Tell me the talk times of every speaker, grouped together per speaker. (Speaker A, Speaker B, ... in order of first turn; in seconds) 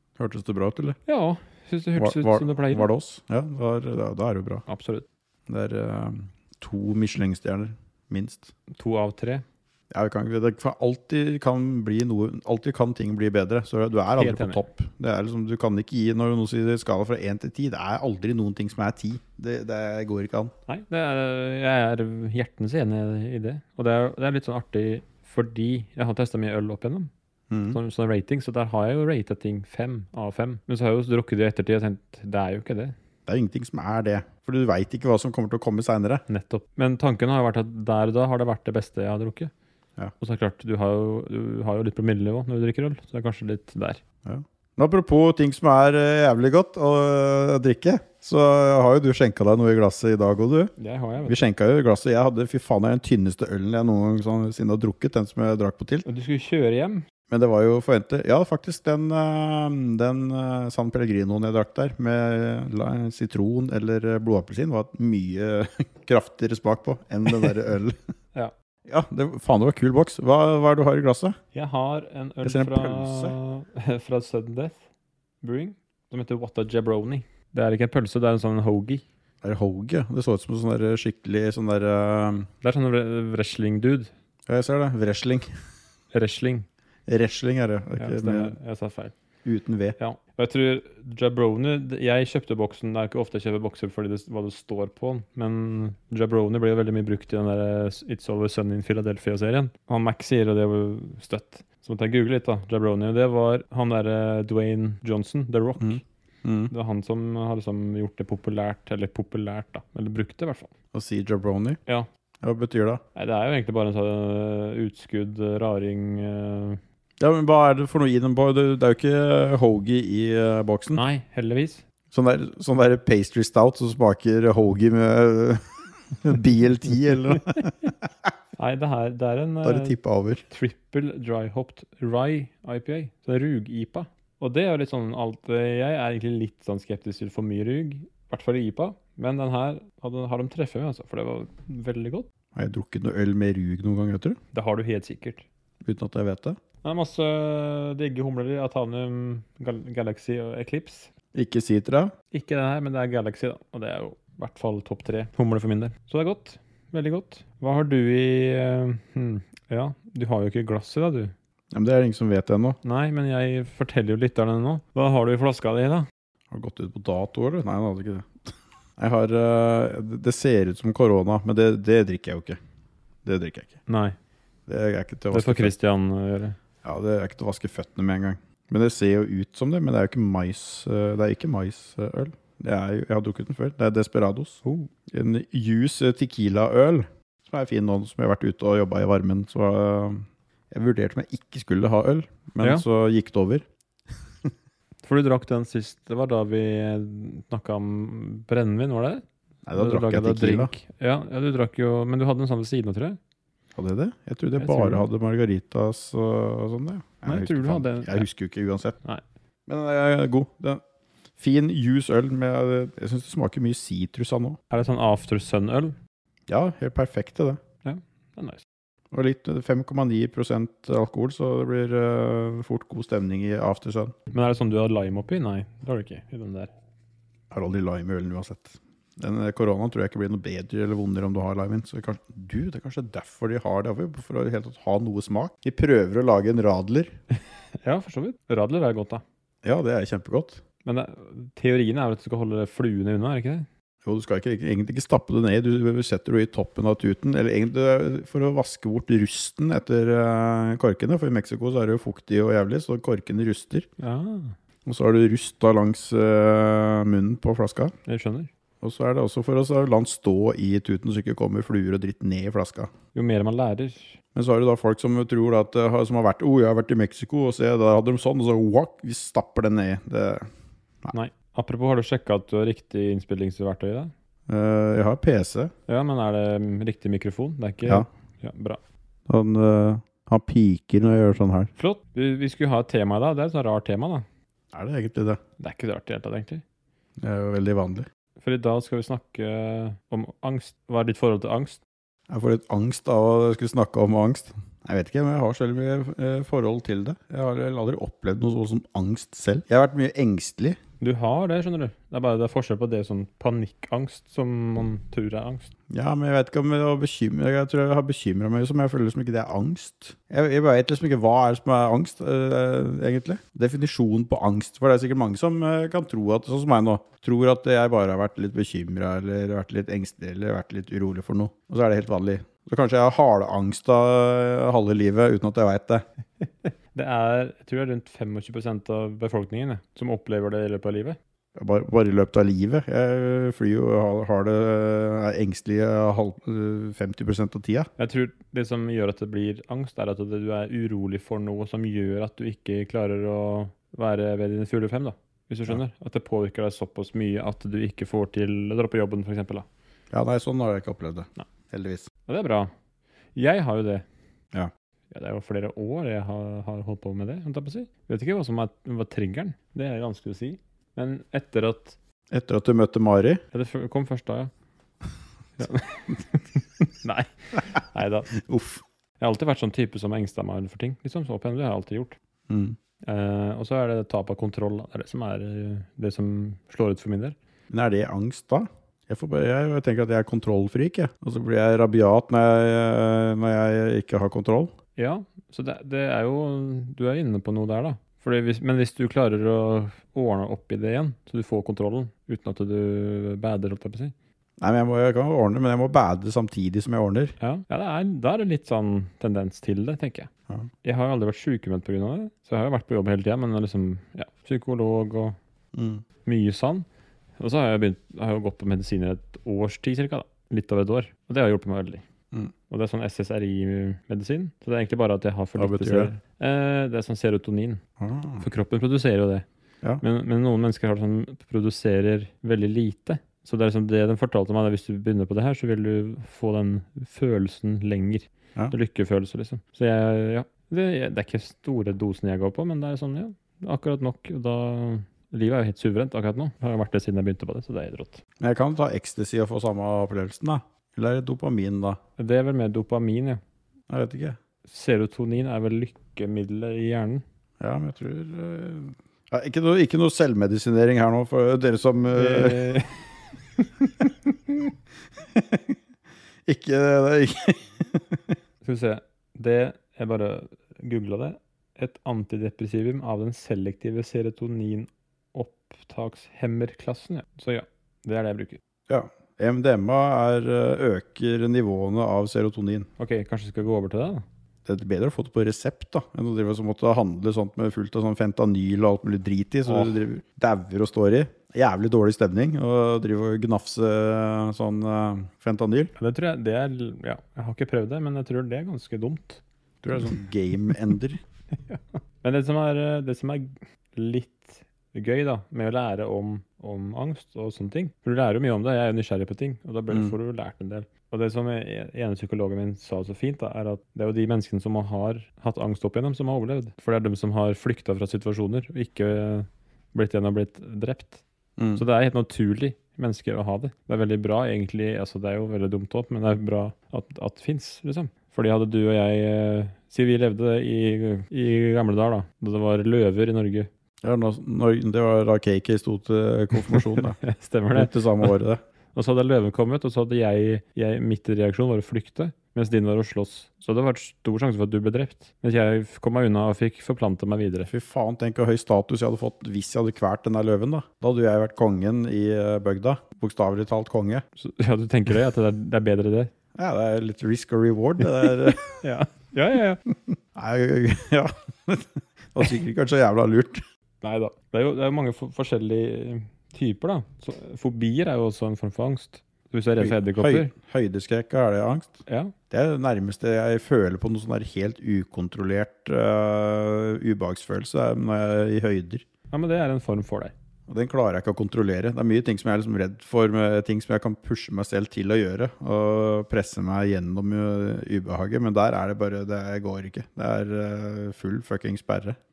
Speaker A: 0.2-1.0, 2.0-4.6, 5.5-8.5, 9.9-20.5, 27.5-27.8, 33.3-36.2, 44.2-50.7, 51.2-56.1, 57.3-68.0, 68.9-71.4, 72.4-73.4, 79.4-82.5, 84.5-85.5, 87.1-88.5, 89.5-90.0, 105.8-106.7, 110.9-111.8, 112.4-113.0, 117.2-121.0, 122.1-127.9, 129.6-130.4, 142.6-144.4, 145.8-146.6, 151.3-152.1, 161.7-162.8, 166.5-168.4, 169.0-172.6, 173.2-173.8, 174.7-175.7, 176.8-193.6, 199.7-200.7, 203.8-209.0, 209.7-210.8, 211.4-214.6, 216.5-217.6, 219.1-224.2, 227.5-237.2, 239.6-240.6, 244.1-253.9, 254.9-257.9, 258.8-262.9, 264.3-270.5, 274.5-275.7, 279.3-281.7, 284.7-285.4, 287.2-288.1, 292.3-300.8, 305.9-326.0, 331.6-337.9, 350.1-352.1, 362.3-363.4, 368.3-368.8, 372.5-372.8, 377.7-384.7, 394.6-397.3, 405.7-406.0, 415.6-416.1, 418.0-418.4, 438.4-442.0, 443.9-444.4, 447.6-452.8, 455.3-455.8, 456.5-458.3, 468.9-472.9, 474.7-485.9, 489.8-491.2, 499.9-500.1, 511.6-511.8, 524.0-527.2, 527.7-528.6, 537.7-544.2, 546.6-548.8, 550.4-553.6, 559.8-569.0, 570.7-582.2
Speaker B: 1.1-2.9, 4.7-5.1, 8.7-9.4, 14.1-14.6, 20.7-27.1, 27.7-33.0, 36.3-39.5, 40.2-44.0, 50.8-51.4, 56.0-57.0, 71.5-74.8, 75.4-79.0, 82.6-84.1, 86.1-86.7, 88.0-89.2, 90.0-106.0, 106.7-110.7, 113.2-116.8, 121.0-121.8, 128.6-130.0, 130.5-142.3, 144.5-145.4, 146.8-151.1, 152.3-161.3, 162.8-166.1, 173.9-174.2, 175.3-176.6, 184.6-184.9, 195.0-203.2, 204.6-205.1, 207.2-208.3, 214.7-216.0, 217.8-218.6, 224.3-226.7, 237.8-239.2, 240.8-243.7, 254.0-254.6, 258.1-258.5, 263.1-264.2, 271.1-274.1, 275.9-278.8, 281.8-284.2, 285.6-286.6, 288.4-291.8, 301.0-305.7, 326.4-331.2, 338.0-349.7, 352.3-352.7, 353.3-354.1, 355.1-361.9, 363.5-364.5, 365.6-368.3, 369.2-372.2, 373.0-377.4, 384.9-394.1, 397.4-400.3, 400.8-405.4, 406.2-406.9, 407.4-412.0, 412.7-417.8, 418.4-419.4, 420.0-438.2, 442.2-443.4, 444.6-447.2, 452.1-454.7, 458.6-468.6, 473.0-474.2, 479.7-480.0, 486.0-489.4, 491.5-511.2, 511.8-523.7, 526.5-528.3, 528.9-537.7, 544.4-546.3, 548.0-549.8, 554.0-560.5, 562.1-562.3, 569.3-570.3